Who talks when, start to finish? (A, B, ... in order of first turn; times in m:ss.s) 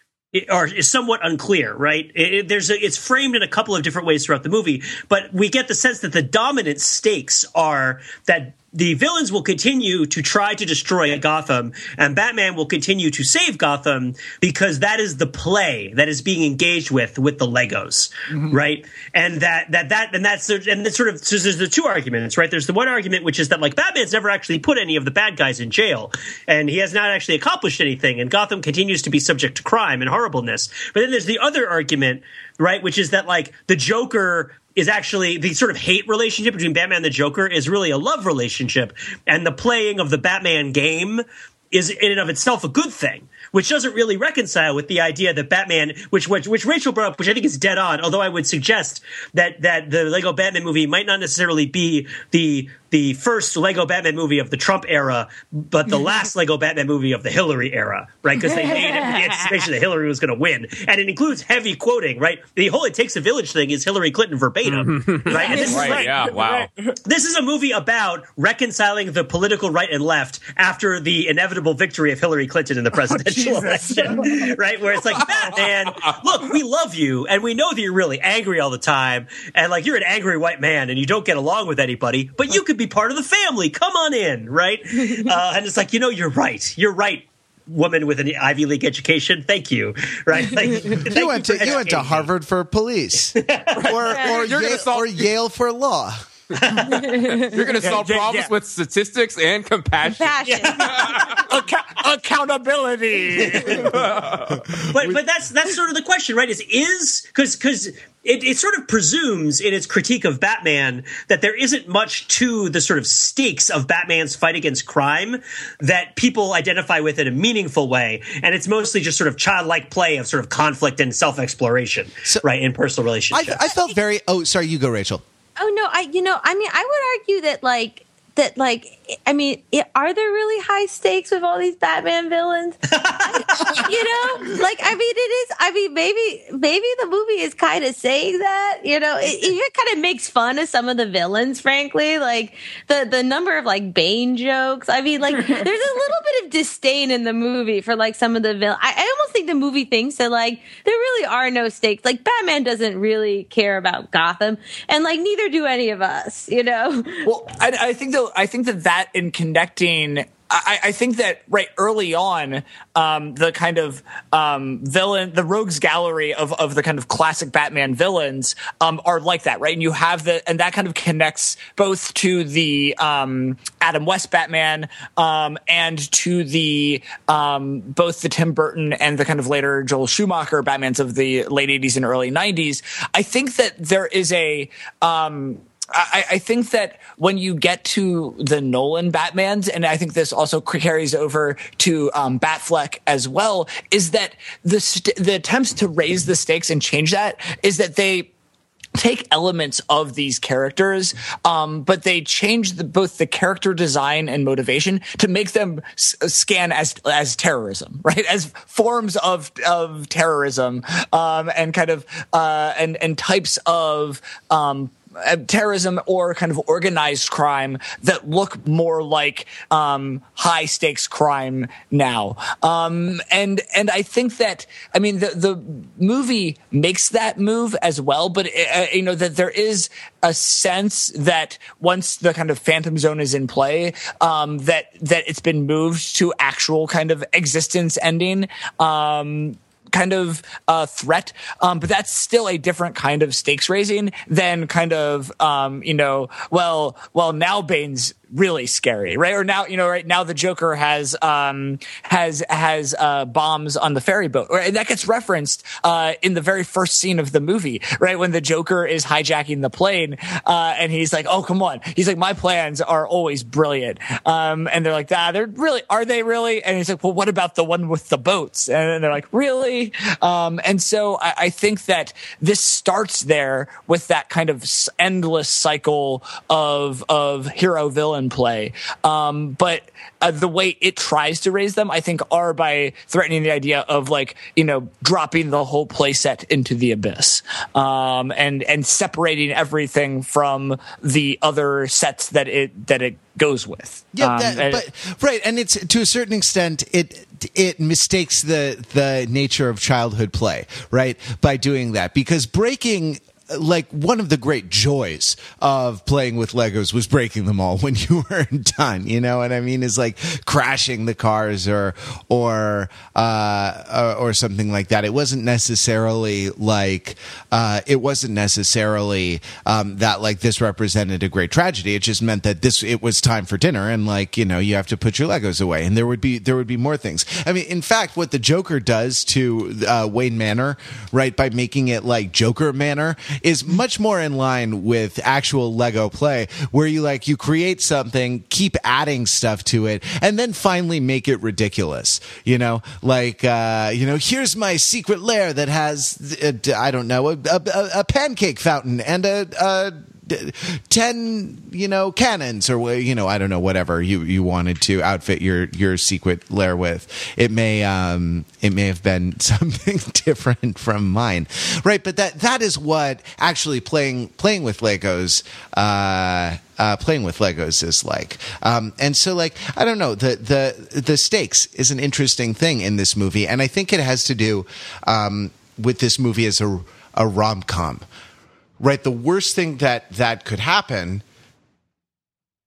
0:00.3-1:06.2 A
0:58.8-0:59.4 B
1:04.6-1:06.7 C
1:05.3-1:06.9 D
1:07.0-1:32.3 A
1:12.9-1:14.5 D
1:31.1-1:36.2 E
1:33.4-1:33.9 A
1:33.7-1:35.2 C
1:36.6-1:37.0 A
1:36.9-1:37.5 B
1:37.0-1:41.4 C
1:37.8-1:38.5 D
1:40.0-1:41.2 B
1:40.6-1:41.4 A
1:41.3-1:44.0 D
1:43.4-1:44.0 A
1:43.8-1:44.6 C
1:44.9-2:03.6 A
2:03.3-2:05.2 E
2:05.6-2:37.3 B
2:12.9-2:13.8 A
2:37.2-3:18.3 D
3:19.0-4:54.8 D
4:54.1-6:18.0 E
6:18.8-6:21.2 E